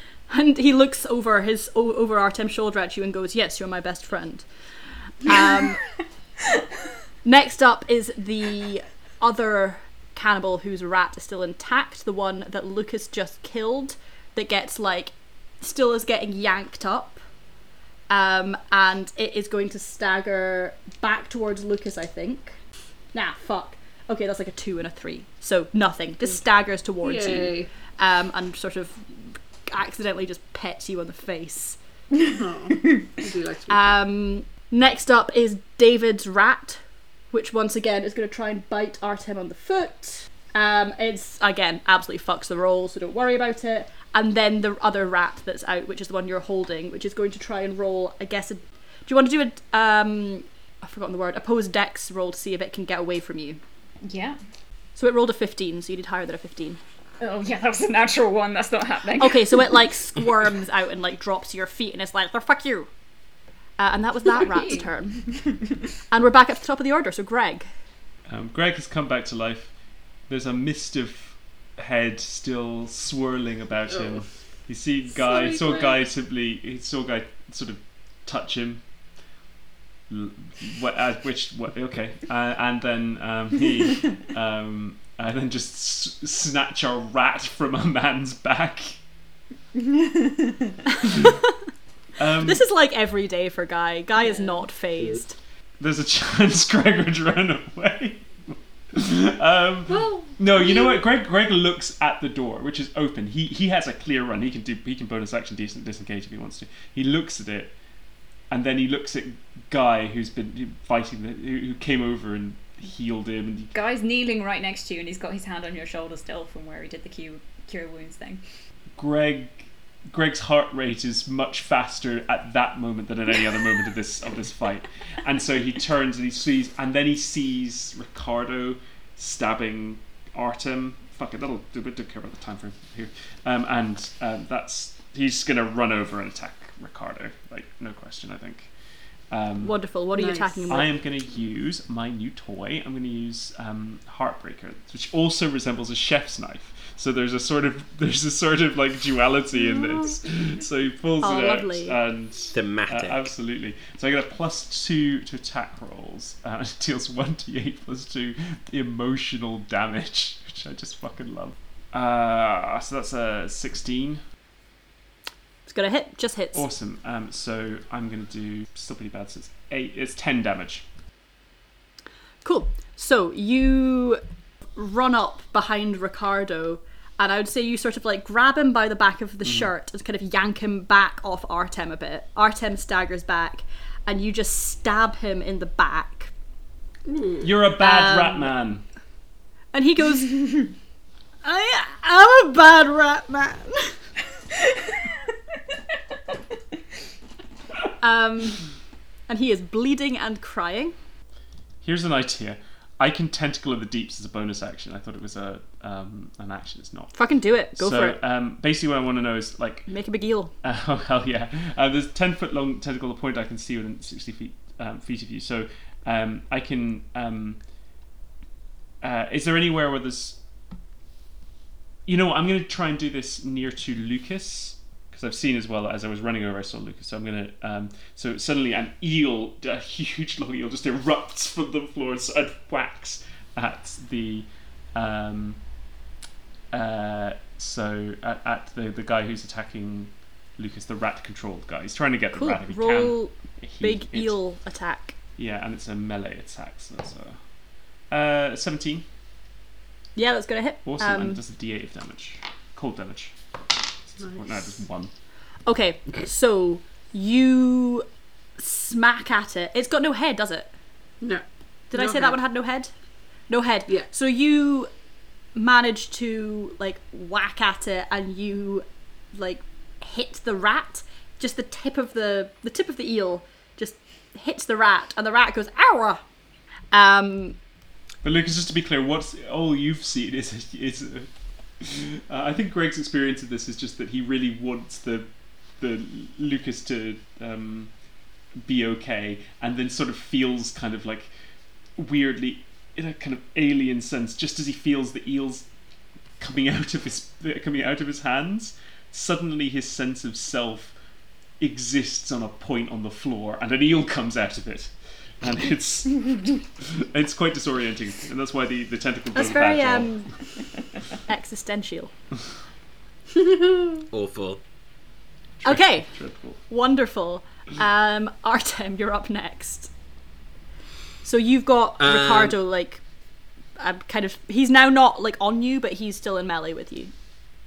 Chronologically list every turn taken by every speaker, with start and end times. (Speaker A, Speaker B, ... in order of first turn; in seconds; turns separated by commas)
Speaker A: 0.3-4.5, Speaker A: 5.2-5.8, Speaker A: 7.2-17.2, Speaker A: 18.1-22.6, Speaker A: 23.1-31.8, Speaker B: 27.0-27.7, Speaker B: 32.2-34.0, Speaker A: 33.7-36.8, Speaker A: 37.3-53.6, Speaker C: 54.0-54.4, Speaker A: 55.0-56.8, Speaker C: 57.2-59.8, Speaker A: 59.2-62.9, Speaker A: 63.8-65.3, Speaker C: 64.3-65.6, Speaker A: 66.1-67.7, Speaker D: 68.3-69.7, Speaker D: 70.3-78.8, Speaker B: 73.9-74.2, Speaker B: 75.2-76.0, Speaker D: 80.1-89.0, Speaker C: 89.8-90.7, Speaker D: 92.2-92.7, Speaker A: 92.4-95.4, Speaker D: 95.8-107.7, Speaker B: 99.9-100.8, Speaker D: 108.5-113.7, Speaker C: 113.7-118.4, Speaker D: 119.0-138.7, Speaker D: 139.3-139.8, Speaker A: 139.6-140.9, Speaker B: 140.2-140.8, Speaker D: 140.7-164.2, Speaker A: 151.2-152.0, Speaker E: 152.5-153.3, Speaker A: 165.7-166.7, Speaker D: 166.5-170.8, Speaker A: 172.4-174.2, Speaker A: 174.8-186.3, Speaker D: 179.4-179.7, Speaker B: 187.1-187.5, Speaker D: 187.4-188.8, Speaker A: 187.8-188.5, Speaker A: 189.7-190.7, Speaker A: 191.4-193.9, Speaker A: 198.0-198.6, Speaker A: 199.3-200.9, Speaker D: 201.8-207.2, Speaker A: 207.1-208.2, Speaker D: 207.8-209.9, Speaker A: 209.9-210.5, Speaker D: 210.6-217.6, Speaker D: 219.0-220.4, Speaker D: 222.1-235.6, Speaker D: 236.7-244.4, Speaker A: 242.3-245.2, Speaker D: 245.4-247.4, Speaker D: 248.1-249.1, Speaker A: 250.2-251.4, Speaker D: 250.8-253.3, Speaker D: 254.2-255.1, Speaker A: 255.7-258.1, Speaker A: 258.6-260.7, Speaker B: 261.2-262.4, Speaker A: 261.9-262.9, Speaker A: 263.5-264.9, Speaker A: 265.6-276.2, Speaker A: 276.9-277.6, Speaker D: 278.2-281.3, Speaker D: 281.8-287.9, Speaker D: 288.6-291.3, Speaker D: 292.0-295.7, Speaker D: 296.4-300.9, Speaker D: 301.6-310.1, Speaker A: 309.3-310.3, Speaker A: 311.3-312.1, Speaker E: 314.1-314.6, Speaker D: 315.6-316.6, Speaker A: 315.6-316.1, Speaker A: 316.7-319.9, Speaker A: 321.2-323.0, Speaker E: 322.0-322.6, Speaker A: 323.8-327.1